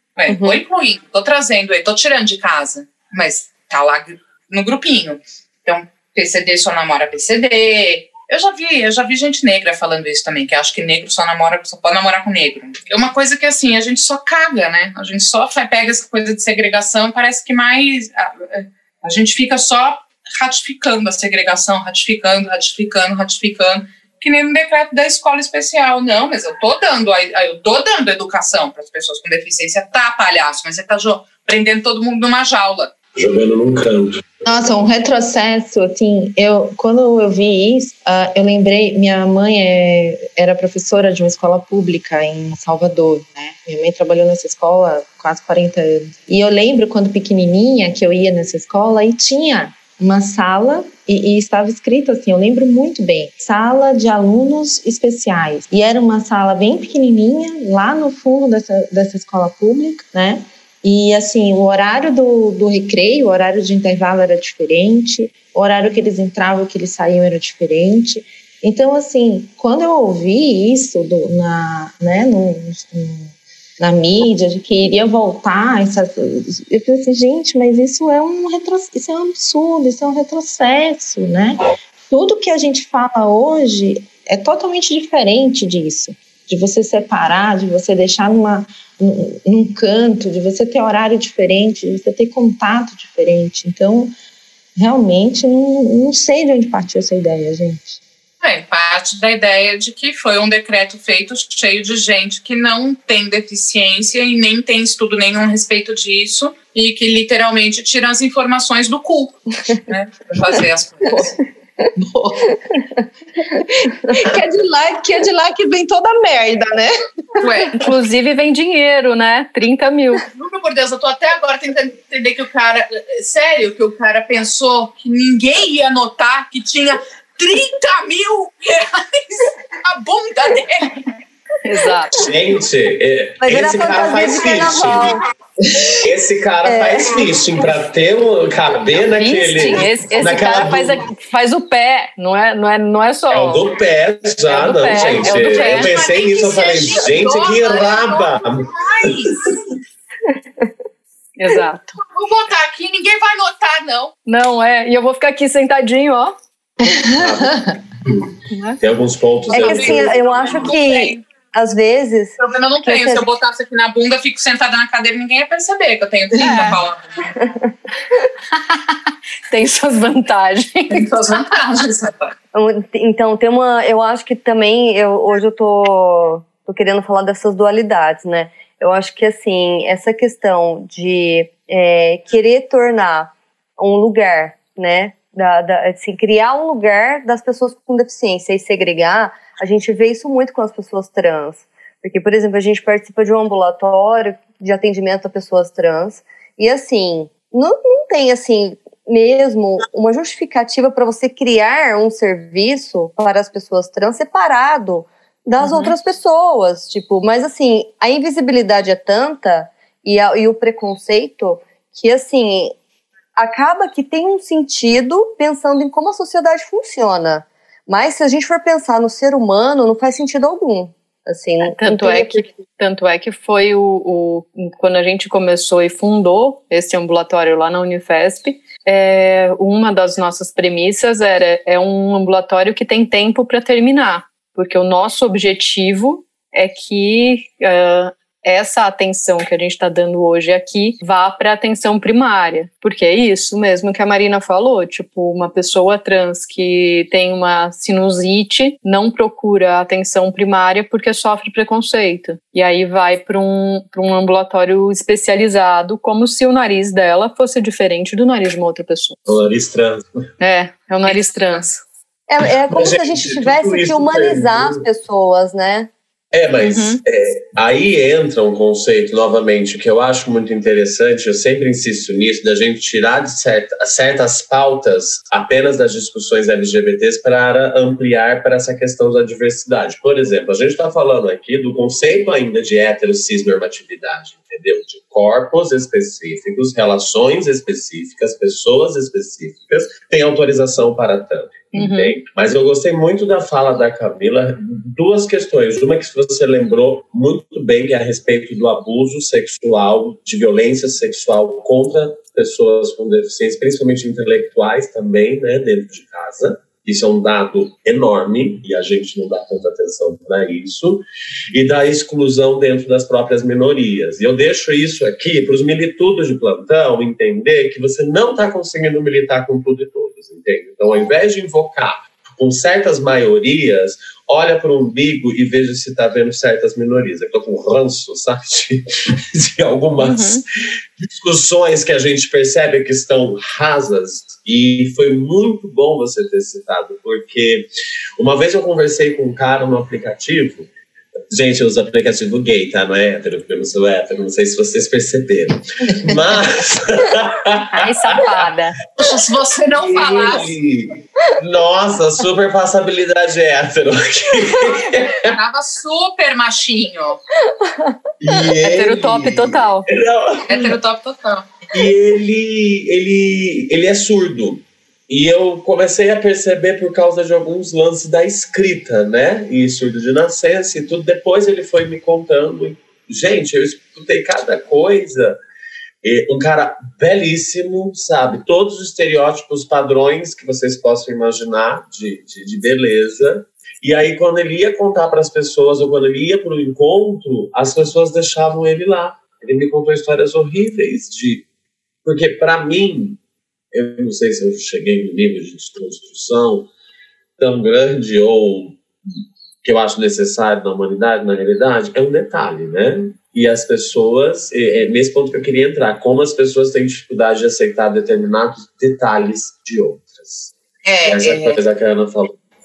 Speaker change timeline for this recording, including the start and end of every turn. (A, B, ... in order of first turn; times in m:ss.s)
0:00.2-0:32.9 A
0:00.3-0:00.6 B
0:33.2-0:34.2 C
0:34.4-1:34.1 D
1:34.8-1:38.0 D
1:38.4-1:51.3 A
1:52.0-1:52.6 D
1:53.5-1:57.7 D
1:57.4-1:57.8 A
1:57.8-2:00.2 E
2:00.3-2:11.1 A
2:11.6-2:12.1 E
2:12.2-2:15.2 C
2:13.4-2:15.2 B
2:16.0-2:21.0 C
2:16.6-2:17.4 B
2:19.2-2:23.6 E
2:23.3-2:29.5 C
2:24.5-2:25.9 E
2:25.0-2:29.5 A
2:31.4-2:32.0 E
2:32.0-2:34.1 A
2:34.2-2:36.4 E
2:36.8-2:37.7 D
2:37.1-2:40.7 C
2:38.5-2:38.8 E
2:39.5-2:43.2 B
2:39.5-2:41.2 A
2:42.4-2:47.3 A
2:46.4-2:46.7 D
2:46.4-2:46.8 E
2:47.4-2:47.7 B
2:49.5-2:51.1 E
2:50.9-2:52.3 A
2:52.5-3:32.7 B
3:33.4-3:42.5 B
3:41.6-4:19.2 E
4:19.3-4:20.1 C
4:20.4-4:21.8 E
4:21.1-4:21.7 A
4:22.3-4:25.9 B
4:22.7-4:24.8 C
4:26.3-5:30.4 C
4:26.6-4:27.0 E
4:51.7-4:52.1 E
5:30.0-5:30.4 E
5:31.0-5:37.6 C
5:38.2-5:40.7 C
5:41.3-5:48.5 C
5:47.7-5:48.8 E
5:49.0-5:50.6 A
5:49.7-5:55.4 C
5:55.3-5:57.2 A
5:58.2-6:00.7 C
5:58.6-5:59.8 E
6:00.5-6:01.5 A
6:01.7-6:15.4 C
6:16.0-6:31.4 C
6:32.0-6:33.2 C
6:33.7-6:36.7 C
6:37.4-6:38.8 C
6:39.6-6:52.3 C
6:50.8-6:51.6 A